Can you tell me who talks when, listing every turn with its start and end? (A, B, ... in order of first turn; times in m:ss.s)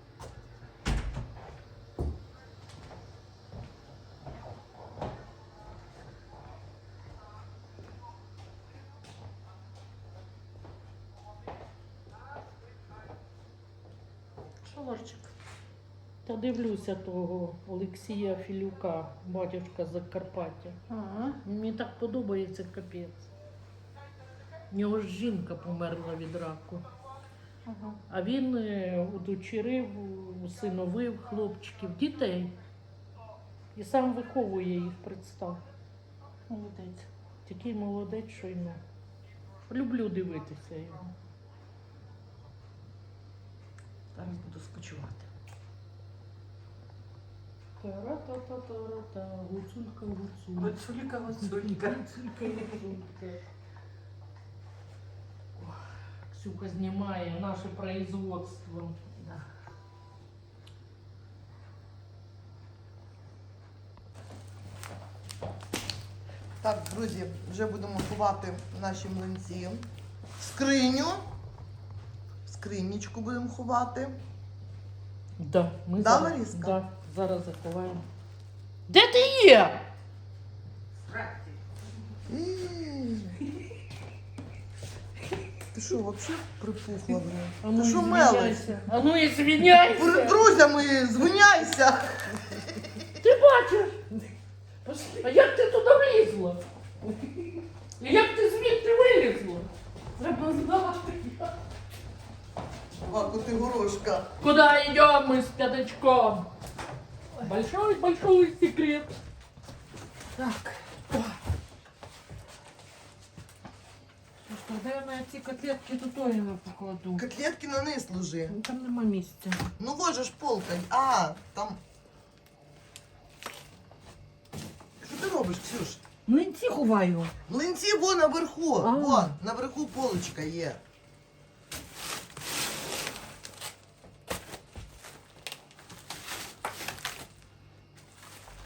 0:14.6-0:15.3 A
0:16.3-0:20.8 B
0:20.9-0:21.4 A
0:21.4-0:23.3 B
0:24.7-0:26.8 B
0:27.7-0:28.0 A
0:28.1-0:32.6 B
0:33.8-0:35.6 B
0:36.5-0:37.1 A
0:37.5-0:38.8 B
0:39.7-0:41.1 B
0:44.2-0:45.2 A
0:47.8-0:50.8 B
0:50.6-0:52.8 A
0:51.4-0:53.4 B
0:55.6-0:59.4 B
1:06.6-1:11.2 C
1:12.4-1:14.2 C
1:15.4-1:18.0 B
1:16.0-1:16.8 C
1:18.9-1:19.8 B
1:21.1-1:21.6 A
1:22.3-1:23.4 C
1:25.7-1:28.7 C
1:27.6-1:30.5 B
1:29.9-1:33.0 C
1:33.2-1:34.0 B
1:34.8-1:35.3 A
1:35.2-1:36.6 B
1:38.0-1:39.7 B
1:40.2-1:41.5 A
1:43.0-1:44.3 C
1:44.4-1:46.5 B
1:47.4-1:49.1 B
1:50.4-1:51.4 A
1:54.5-1:57.3 A
1:57.2-1:58.6 C
1:58.5-1:59.7 A
1:59.8-2:01.8 C
2:05.0-2:06.0 C
2:06.3-2:07.4 A
2:07.5-2:10.8 C
2:08.8-2:09.3 A